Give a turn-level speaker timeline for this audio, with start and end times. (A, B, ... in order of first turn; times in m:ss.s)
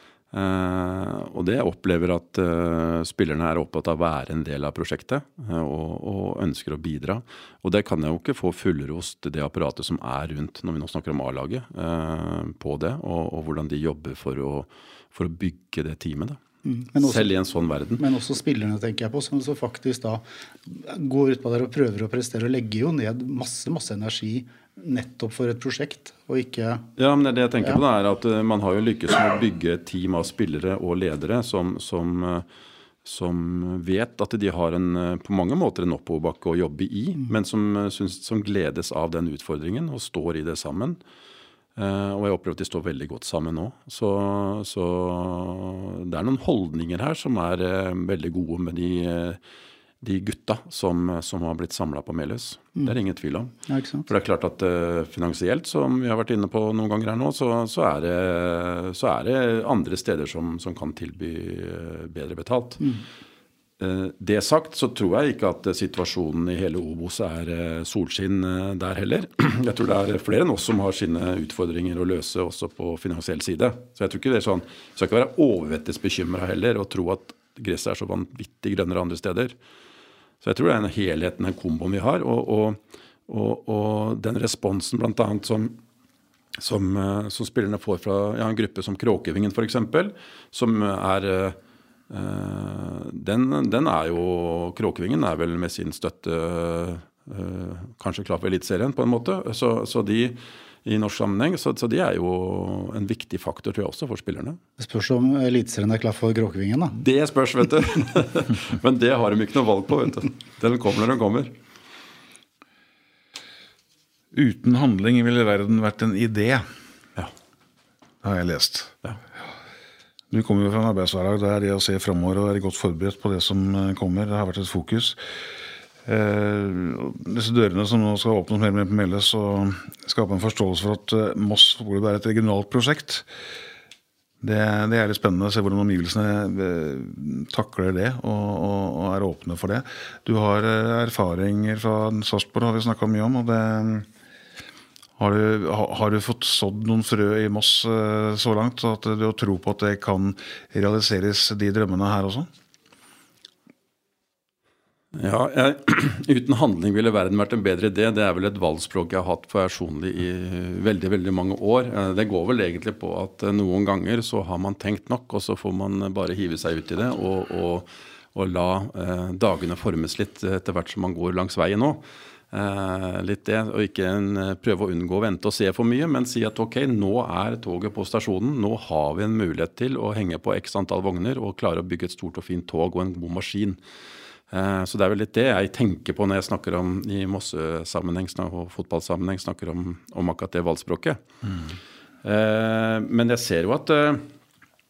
0:00.3-0:16.4 A
0:16.6-0:17.3 B
0:17.0-0:18.0 A
0:18.0-0:26.9 B
0:27.0-0:32.4 A
0:33.0-0:41.0 A
0:41.8-0:49.4 A
0:50.0-0:53.5 A
0:53.7-0:54.1 B
0:54.1-1:02.8 A
1:03.8-1:19.6 A
1:20.4-1:25.8 A
1:26.6-1:31.6 A
1:32.1-1:44.6 A
1:44.8-1:47.0 B
1:47.0-1:51.5 A
1:54.3-1:56.6 C
1:58.2-1:59.0 C
2:00.3-2:05.2 C
2:06.0-2:13.3 C
2:14.4-2:24.1 C
2:25.2-2:32.5 C
2:35.1-3:03.8 A
3:04.5-3:11.2 A
3:12.2-3:14.2 A